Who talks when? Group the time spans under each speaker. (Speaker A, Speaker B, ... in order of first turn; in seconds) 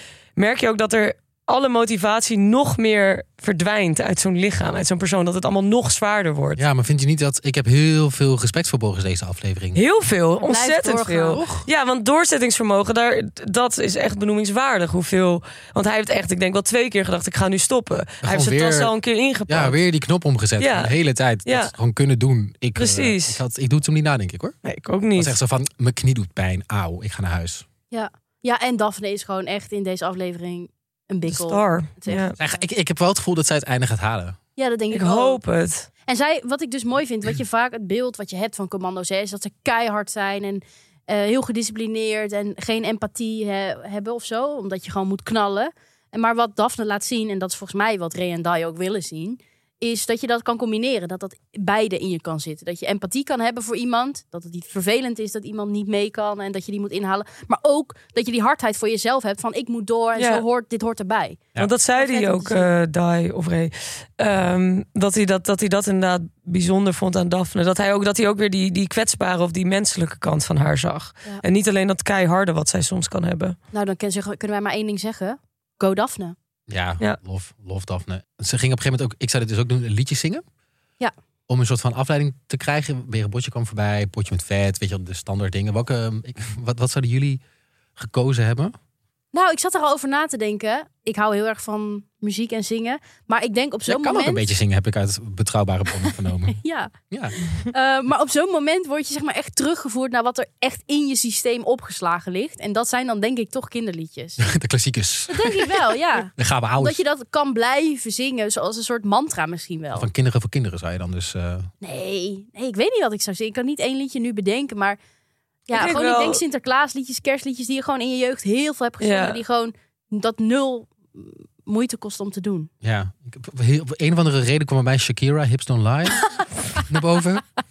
Speaker A: 0.3-6.6, 9.7-19.8, 20.6-20.9, 21.4-21.7, 22.8-23.4, 24.6-25.4, 31.3-32.3, 34.9-35.9, 60.1-60.4, 61.6-73.5, 115.7-116.4, 119.0-119.4
Speaker B: 6.6-9.8, 11.3-11.7, 18.2-18.9, 19.5-24.6, 25.1-27.6, 32.4-34.4, 76.7-80.4, 81.5-87.4, 88.0-88.7, 93.8-97.3, 104.4-107.0, 109.9-111.7, 122.8-126.3, 126.8-127.4
Speaker C: 10.4-11.4, 27.9-32.6, 34.5-35.4, 36.1-62.7, 73.7-76.3, 89.3-94.5, 96.0-96.9, 97.5-104.5, 105.3-110.1, 111.8-115.0, 115.7-122.7, 126.2-126.8